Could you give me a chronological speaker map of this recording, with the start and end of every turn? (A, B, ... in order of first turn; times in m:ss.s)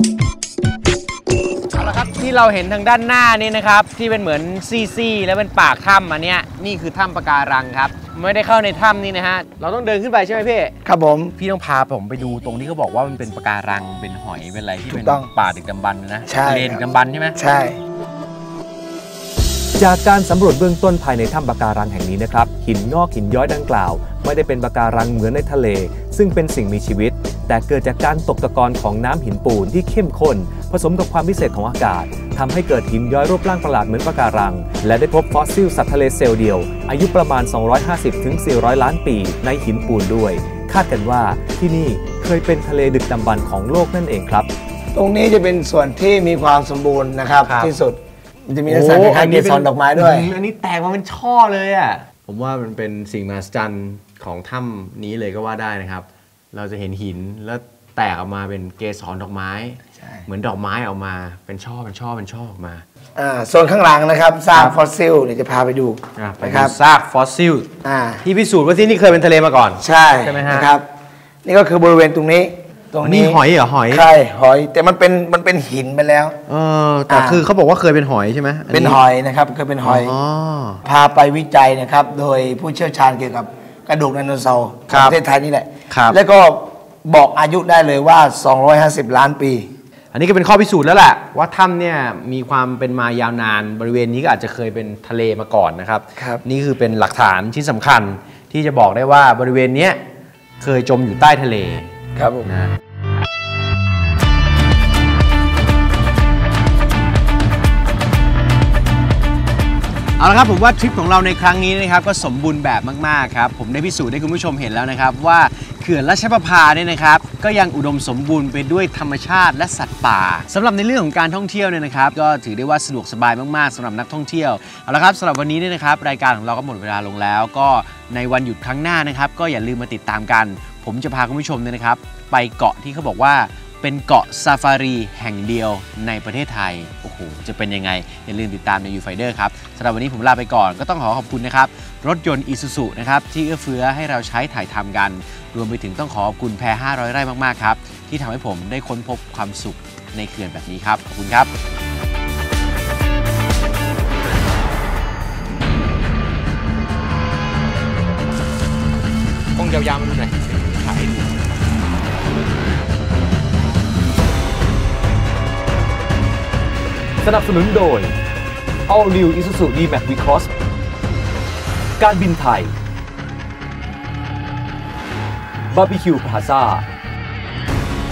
0:01.7-0:10.7 A
0:10.8-0:11.3 B
0:11.4-0:17.4 A
0:14.9-0:15.3 B
0:16.3-0:16.8 B
0:17.4-0:17.8 B
0:19.8-0:44.5 C
0:45.0-0:50.3 B
0:47.4-0:47.7 A
0:48.7-1:02.8 A
1:00.0-1:00.2 B
1:03.2-1:06.7 B
1:06.2-1:07.7 A
1:07.8-1:08.2 B
1:08.2-1:10.7 A
1:09.8-1:10.9 B
1:11.4-1:16.4 B
1:13.0-1:14.1 A
1:16.5-1:19.0 A
1:17.1-1:17.4 B
1:18.7-1:20.2 B
1:19.8-1:20.8 A
1:20.8-1:29.7 B
1:24.9-1:25.2 A
1:25.9-1:26.2 A
1:30.1-1:40.0 A
1:36.2-1:36.4 B
1:40.6-1:41.9 A
1:42.2-1:42.5 B
1:42.4-1:42.7 A
1:50.2-2:31.5 A
2:39.6-2:41.3 A
2:47.2-2:48.2 C
2:48.9-2:50.5 C
2:52.0-2:52.8 C
2:55.7-2:56.9 C